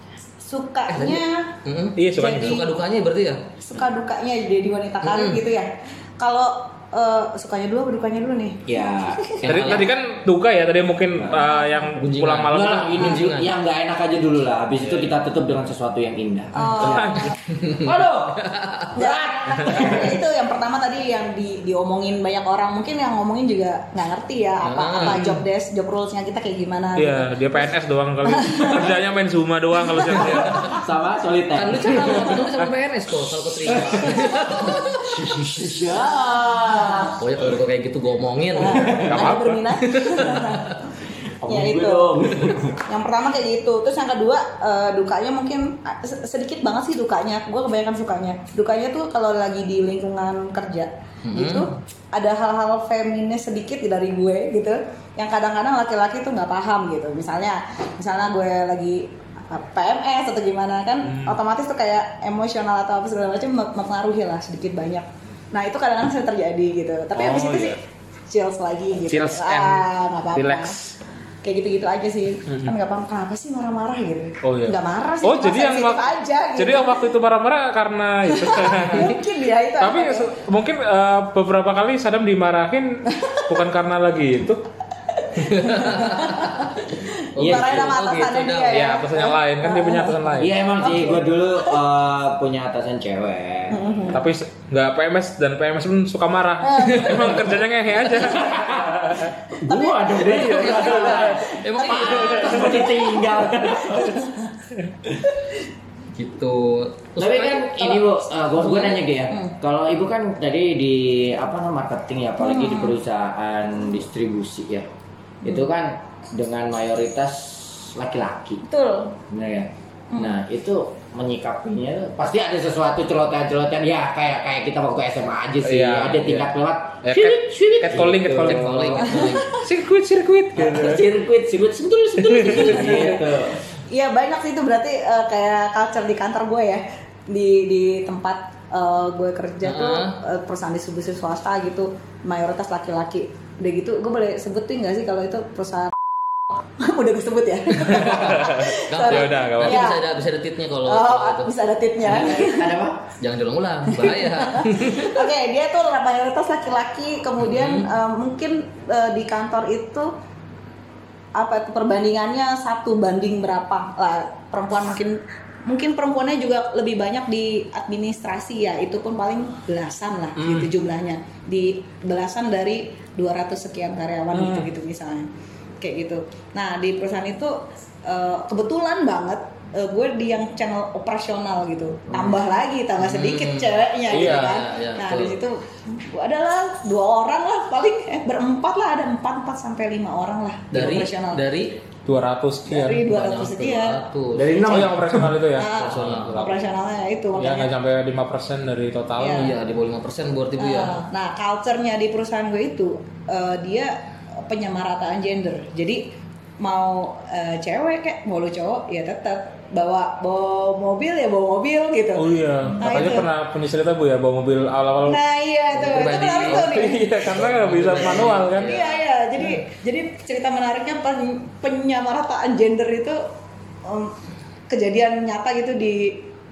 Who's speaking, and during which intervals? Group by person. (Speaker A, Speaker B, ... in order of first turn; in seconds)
Speaker A: 0.4-1.5, 2.1-2.7, 3.6-9.4, 11.3-11.9, 16.5-17.4, 18.9-27.6, 28.2-28.9, 29.9-30.4, 38.5-40.8, 41.4-42.3, 42.8-67.8, 68.3-70.7, 71.4-77.1, 78.3-80.3, 83.1-83.5, 85.1-91.7, 93.7-94.2, 96.6-97.6, 99.6-103.3, 103.9-104.5, 108.7-109.5, 112.4-113.0, 118.7-119.2, 120.1-120.4, 129.1-129.6, 132.5-133.3, 133.9-146.0, 146.8-150.1, 150.8-152.7, 153.9-160.1, 161.3-191.4, 192.7-194.0, 195.5-197.7, 199.2-199.5, 200.6-206.0, 206.6-213.3, 215.0-217.1, 218.1-223.2, 223.8-224.1, 224.7-226.3
Speaker B: 0.9-3.4, 5.0-5.4, 9.4-9.9, 11.9-13.5, 17.5-18.9, 24.6-25.4, 31.5-35.0, 37.1-39.1, 39.8-40.8, 51.2-51.7, 85.5-86.7, 87.3-88.9, 97.0-97.2, 100.4-103.0, 106.1-109.0, 128.4-129.6, 139.6-140.2, 147.9-151.5, 153.2-155.3, 157.4-157.9, 183.0-185.4, 190.7-191.8, 193.0-194.8, 195.7-196.5, 199.3-201.0, 215.7-219.6
Speaker C: 1.9-2.6, 9.4-13.1, 16.8-17.3, 26.9-30.7, 39.0-39.6, 61.0-61.4, 67.1-67.8, 69.1-71.0, 72.5-72.7, 74.4-79.2, 79.8-84.6, 88.7-90.5, 94.1-99.3, 100.3-101.5, 125.6-131.1, 132.2-133.0, 147.9-149.8, 170.4-170.7, 174.3-174.7, 184.1-184.5, 192.1-193.1, 194.7-196.6, 197.3-199.5, 212.2-215.2, 216.4-218.8
Speaker D: 8.7-9.8, 12.5-20.2, 30.2-32.4, 33.7-37.4, 38.6-39.3, 41.4-42.8, 87.3-87.9, 90.4-93.9, 98.2-104.3, 107.2-114.9, 115.4-118.6, 119.3-129.1, 130.6-133.6, 152.0-153.1, 194.3-195.3